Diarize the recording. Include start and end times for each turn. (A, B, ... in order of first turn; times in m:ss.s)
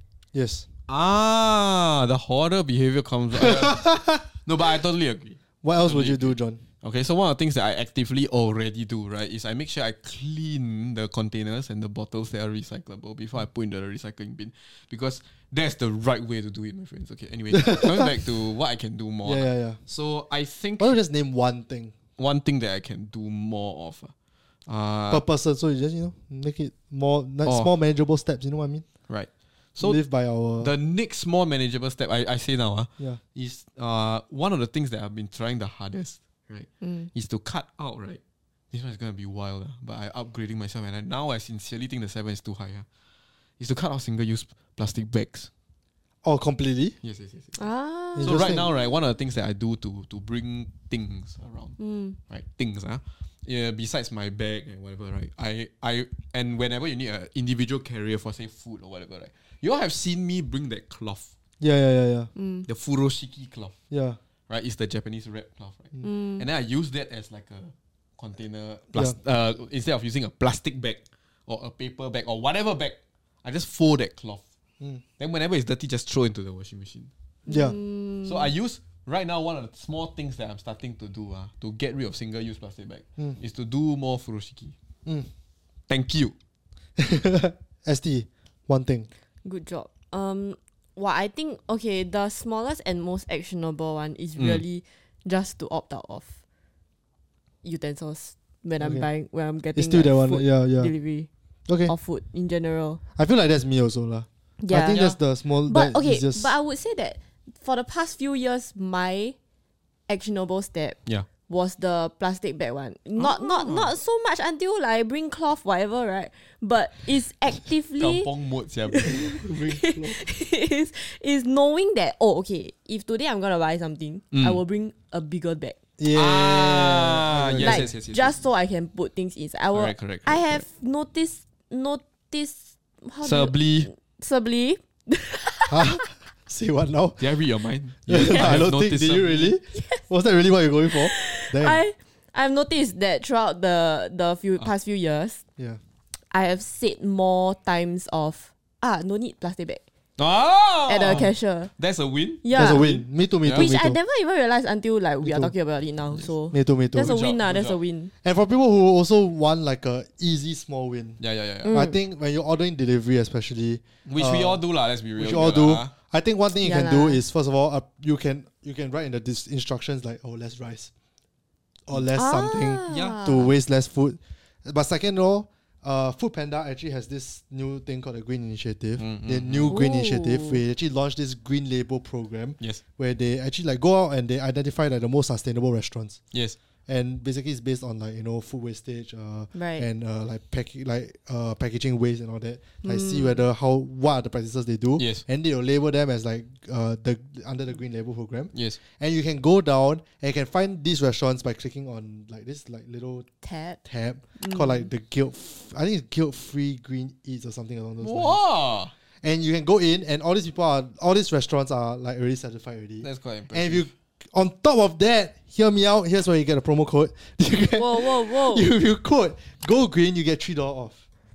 0:00.3-0:00.7 A
0:00.9-0:21.0 B
0:03.4-0:04.2 A
0:05.6-0:06.6 A
0:17.5-0:18.1 A
0:19.2-0:19.8 A
0:20.8-0:21.9 A
0:22.2-0:24.1 B
0:24.7-0:25.2 B
0:25.1-0:28.8 A
0:27.4-0:27.7 B
0:29.1-0:30.0 B
0:29.8-0:30.7 A
0:30.6-0:42.9 B
0:36.8-0:37.1 C
0:43.6-0:45.5 B
0:46.2-0:47.0 A
0:47.0-0:47.6 B
0:47.6-0:48.5 C
0:48.2-0:48.7 A
0:48.2-1:01.3 B
0:51.8-0:52.2 C
1:01.6-1:02.3 A
1:02.4-1:02.7 C
1:02.7-1:03.8 B
1:03.9-1:04.2 A
1:04.5-1:14.4 B
1:06.0-1:06.4 C
1:15.2-1:17.1 B
1:17.5-1:18.5 C
1:17.5-1:17.8 A
1:18.2-1:24.7 B
1:25.9-1:26.3 B
1:27.0-1:29.1 A
1:29.4-1:36.3 C
1:37.6-1:41.3 C
1:38.8-1:39.1 A
1:39.7-1:40.9 A
1:41.7-1:41.9 A
1:41.8-1:43.0 C
1:43.2-1:46.5 A
1:44.6-1:45.1 C
1:44.9-1:45.2 B
1:45.7-1:49.4 C
1:50.1-1:58.3 C
1:53.2-1:53.9 B
1:58.0-1:59.4 B
1:58.9-2:05.8 C
1:59.1-2:00.2 A
2:04.3-2:04.6 B
2:06.0-2:07.9 A
2:06.1-2:08.4 B
2:07.6-2:16.0 C
2:09.7-2:10.6 B
2:13.2-2:13.9 B
2:15.7-2:17.2 A
2:17.2-2:19.6 B
2:18.1-2:21.8 A
2:19.7-2:20.0 C
2:20.9-2:25.4 C
2:26.3-2:29.8 C
2:30.2-2:33.7 B
2:30.9-2:31.7 C
2:32.4-2:38.1 C
2:32.5-2:34.0 A
2:35.2-2:35.5 A
2:36.5-2:37.2 A
2:37.0-2:37.8 B
2:38.2-2:41.2 A
2:41.2-2:41.7 B
2:41.6-2:42.0 C
2:41.7-2:44.6 A
2:44.0-2:45.9 B
2:45.2-2:50.9 A
2:46.6-2:47.2 C
2:51.9-3:06.2 A
2:52.1-2:53.5 C
2:52.9-2:53.2 B
2:59.0-2:59.8 B
2:59.7-3:00.6 C
3:06.3-3:06.6 B
3:06.9-3:23.3 A
3:09.5-3:09.9 C
3:12.8-3:13.4 C
3:15.0-3:15.2 B
3:18.5-3:18.8 B
3:23.4-3:23.8 C
3:23.8-3:28.4 A
3:24.4-3:24.9 C
3:28.0-3:28.9 B
3:29.2-3:41.0 A
3:33.0-3:33.9 B
3:37.7-3:38.7 C